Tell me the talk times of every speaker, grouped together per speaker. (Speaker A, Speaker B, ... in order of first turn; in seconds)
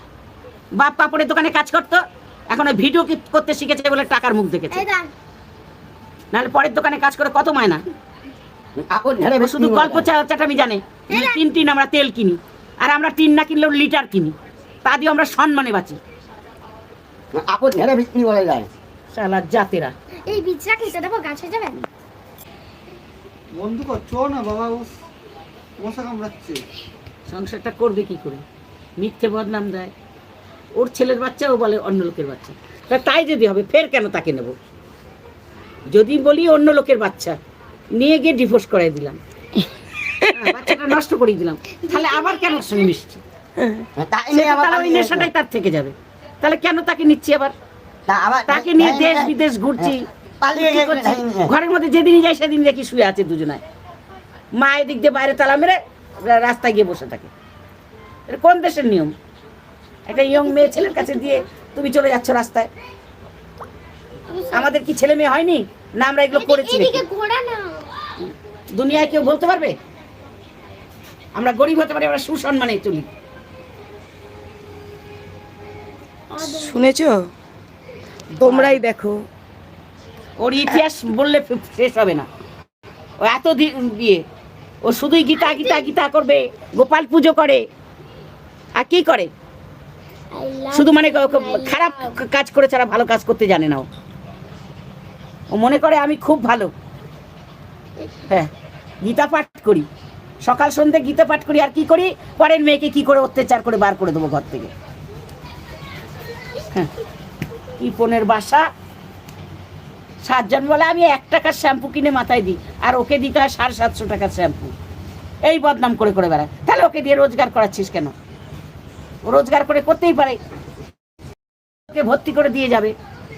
Speaker A: 0.8-4.8, 6.3-7.8, 9.4-16.0, 19.1-19.9, 27.3-28.4, 29.0-29.9, 30.8-34.5, 35.9-37.4, 37.9-39.2, 40.3-43.2, 44.3-47.5, 48.5-53.6, 54.6-57.3, 58.3-59.1, 60.0-62.7, 64.5-67.0, 68.2-69.8, 71.3-73.1, 78.4-78.8, 80.4-82.3, 83.2-84.2, 84.8-87.6, 88.8-89.3, 90.7-93.9, 95.5-96.7, 99.0-99.9, 100.4-104.7, 107.8-108.7, 110.2-114.7, 115.4-118.1, 119.2-120.4, 121.9-122.9
Speaker B: 4.7-5.1, 11.1-11.4, 20.3-21.9, 41.8-42.7, 60.1-61.4, 64.3-64.8, 66.3-67.9, 76.3-76.9, 85.4-85.8, 90.3-92.1
Speaker C: 8.8-10.1, 17.3-18.7, 44.0-45.3, 48.1-51.5
Speaker D: 23.5-24.9, 25.8-26.6
Speaker E: 40.1-40.7, 43.6-43.8, 76.4-77.2, 78.4-79.2